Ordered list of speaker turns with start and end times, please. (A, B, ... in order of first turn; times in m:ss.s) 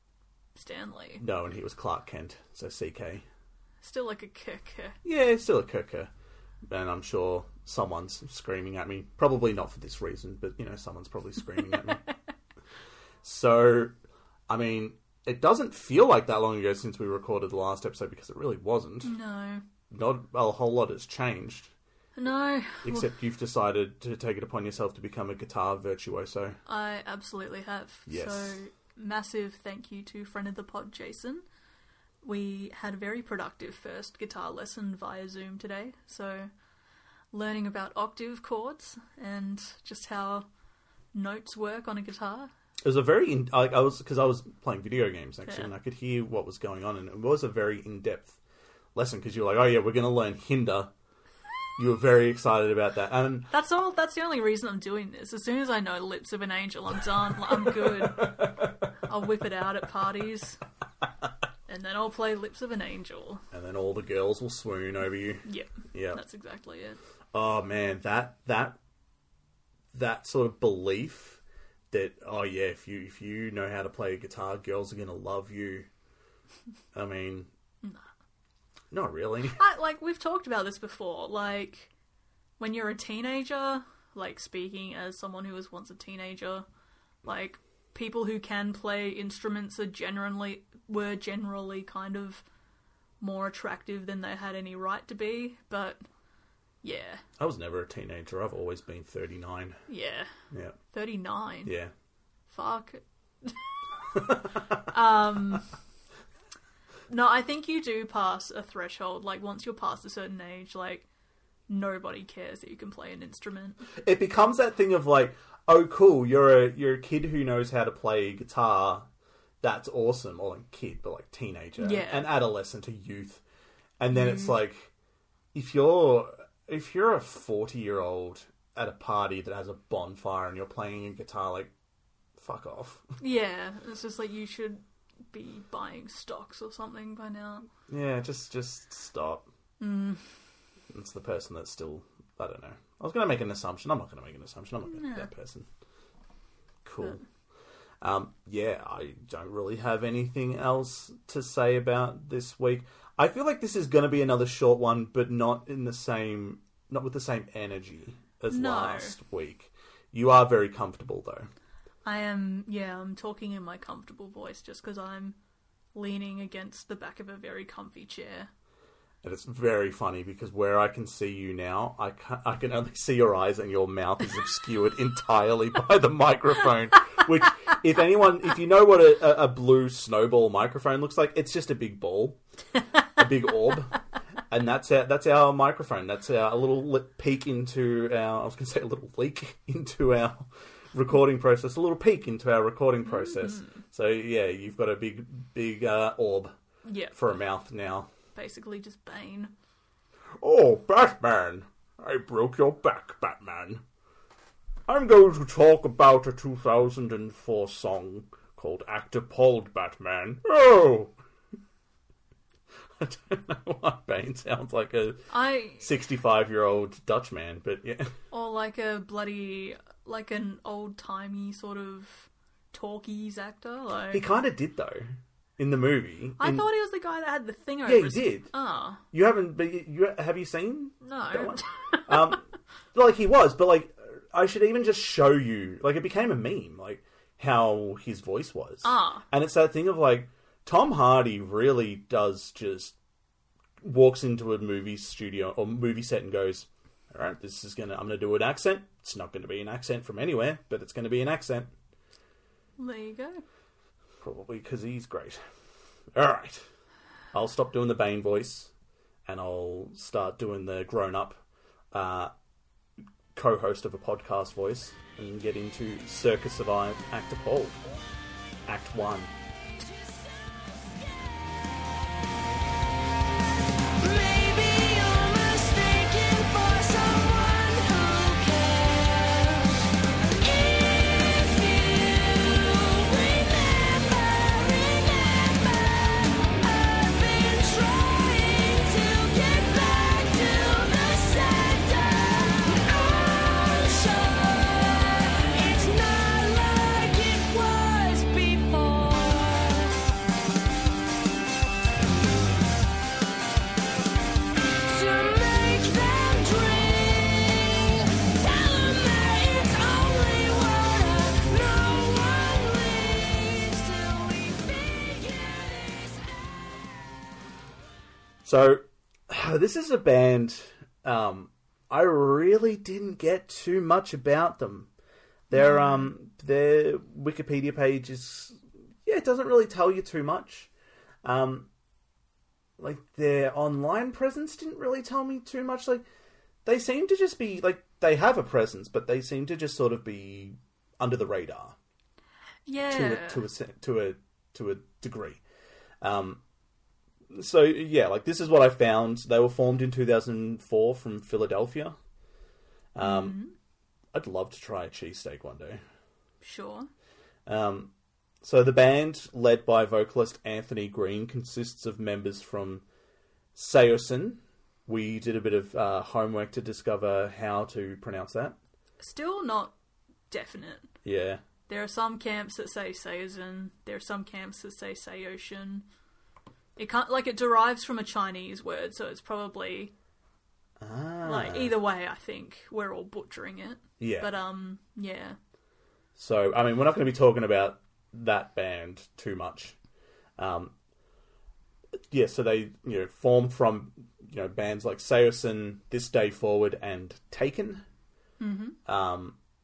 0:00.6-0:01.2 A
0:01.2-0:03.2 B
0:03.8-0:05.0 A
0:05.0-0:06.1 B
0:06.7-0:12.0 B
0:13.2-0:14.0 B
0:14.5-0:19.1 B
0:19.0-0:19.6 A
0:19.9-0:21.7 B
0:22.2-0:23.1 A
0:22.8-0:26.6 B
0:26.7-0:31.4 A
0:28.1-0:28.6 B
0:32.2-0:36.5 A
0:37.3-0:40.5 A
0:41.1-0:42.5 A
0:42.8-0:48.4 B
0:49.0-0:50.9 B
0:51.8-0:53.5 B
0:53.5-1:00.6 A
0:58.2-0:58.6 B
1:01.7-1:03.4 A
1:03.5-1:06.2 B
1:05.4-1:07.0 A
1:07.3-1:08.8 B
1:09.9-1:15.9 B
1:16.9-1:17.5 B
1:18.9-1:19.6 B
1:19.5-1:21.9 A
1:22.6-1:26.7 A
1:27.2-1:32.4 A
1:33.2-1:36.0 A
1:36.8-1:37.2 A
1:37.4-1:39.8 B
1:39.9-1:40.3 A
1:40.5-1:40.8 B
1:40.9-1:41.8 A
1:41.7-1:41.9 B
1:42.5-1:43.7 A
1:44.2-1:44.4 B
1:44.6-1:45.7 A
1:47.1-1:51.1 A
1:51.7-1:53.9 A
1:54.0-1:59.1 B
1:59.6-2:03.4 B
2:01.8-2:02.3 A
2:04.0-2:04.9 B
2:04.1-2:04.6 A
2:05.5-2:11.7 B
2:12.4-2:13.1 B
2:13.2-2:17.7 A
2:17.9-2:19.5 B
2:19.8-2:20.3 A
2:20.9-2:25.7 B
2:24.9-2:25.3 A
2:26.8-2:27.2 B
2:28.0-2:41.5 B
2:38.5-2:39.2 A
2:42.0-2:45.4 A
2:46.0-2:48.5 A
2:49.2-3:02.4 B
3:03.1-3:16.6 B
3:13.2-3:13.7 A
3:16.8-3:17.2 A
3:17.1-3:18.1 B
3:18.3-3:19.5 A
3:20.4-3:23.8 B
3:24.9-3:31.1 B
3:33.0-3:35.2 B
3:35.3-3:35.9 A
3:35.8-3:38.2 B
3:38.3-3:44.2 A
3:44.1-3:46.6 B
3:46.4-3:49.0 A
3:47.8-3:48.5 B
3:49.1-4:03.0 B
3:51.0-3:52.3 A
3:58.8-3:59.3 A
4:03.8-4:11.7 B
4:12.8-4:13.4 A
4:14.2-4:15.4 B
4:16.1-4:16.7 B
4:17.3-4:18.7 B
4:19.3-4:22.3 B
4:23.4-4:27.8 B
4:28.7-4:29.3 B
4:29.8-4:32.1 C
4:34.0-4:39.8 C
4:40.4-5:00.1 C
5:04.8-5:16.8 C
5:18.4-5:24.9 B
5:25.5-5:30.7 B
5:25.5-5:26.1 A
5:31.2-5:31.7 B
5:32.8-5:36.0 B
5:36.6-5:41.8 B
5:42.7-5:43.4 A
5:42.9-5:45.4 B
5:46.0-5:46.4 B
5:47.3-5:52.0 B
5:53.0-5:53.4 B
5:53.0-5:53.6 A
5:54.1-5:55.8 B
5:56.4-5:56.9 A
5:57.5-6:02.8 B
6:03.6-6:08.6 B
6:09.0-6:09.8 A
6:10.3-6:10.9 A
6:11.0-6:11.4 B
6:11.7-6:15.9 A
6:16.8-6:19.9 A
6:20.8-6:21.7 B
6:21.2-6:25.4 A
6:24.0-6:24.3 B
6:26.2-6:29.8 B
6:30.4-6:30.7 B
6:32.1-6:37.8 B
6:38.4-6:38.8 A
6:38.9-6:39.4 B